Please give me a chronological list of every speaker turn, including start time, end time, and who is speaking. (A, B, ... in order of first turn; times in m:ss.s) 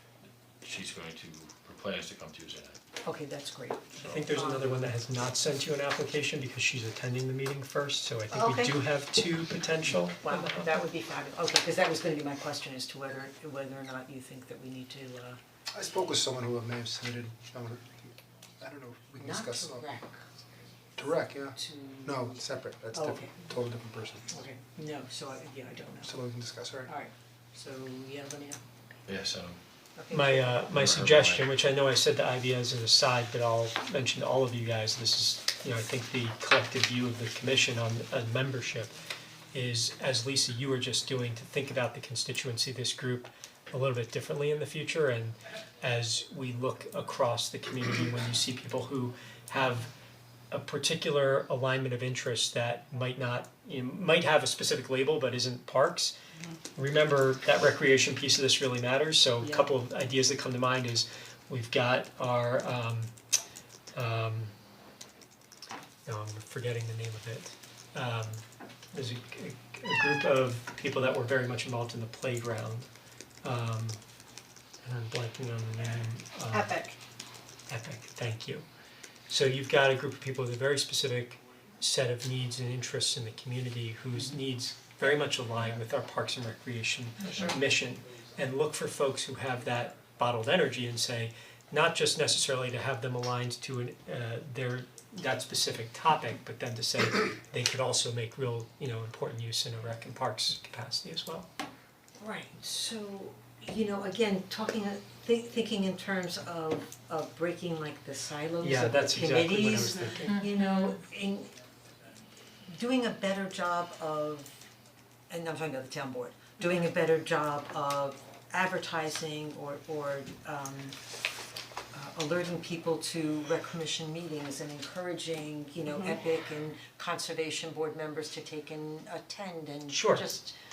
0:00.6-0:02.8 A
0:03.0-0:04.9 B
0:04.0-0:10.7 C
0:08.3-0:08.8 B
0:10.2-0:15.4 B
0:15.7-0:19.9 D
0:19.2-0:20.5 B
0:21.0-0:24.4 D
0:21.6-0:22.4 B
0:22.9-0:23.3 B
0:24.3-0:26.2 B
0:26.0-0:26.9 D
0:26.8-0:28.6 B
0:29.0-0:29.6 A
0:30.0-0:30.7 B
0:30.1-0:38.9 C
0:30.6-0:31.5 A
0:39.5-0:49.9 C
0:50.5-0:56.2 C
0:56.7-1:03.1 C
0:59.4-0:59.6 B
1:03.9-1:04.5 C
1:06.0-1:12.9 C
1:13.4-1:14.0 C
1:14.8-1:16.9 C
1:17.7-1:18.6 C
1:19.3-1:41.5 C
1:42.2-1:51.5 B
1:48.6-1:50.4 C
1:52.6-1:54.7 B
1:55.3-2:01.0 B
2:01.9-2:10.6 B
2:09.9-2:10.3 C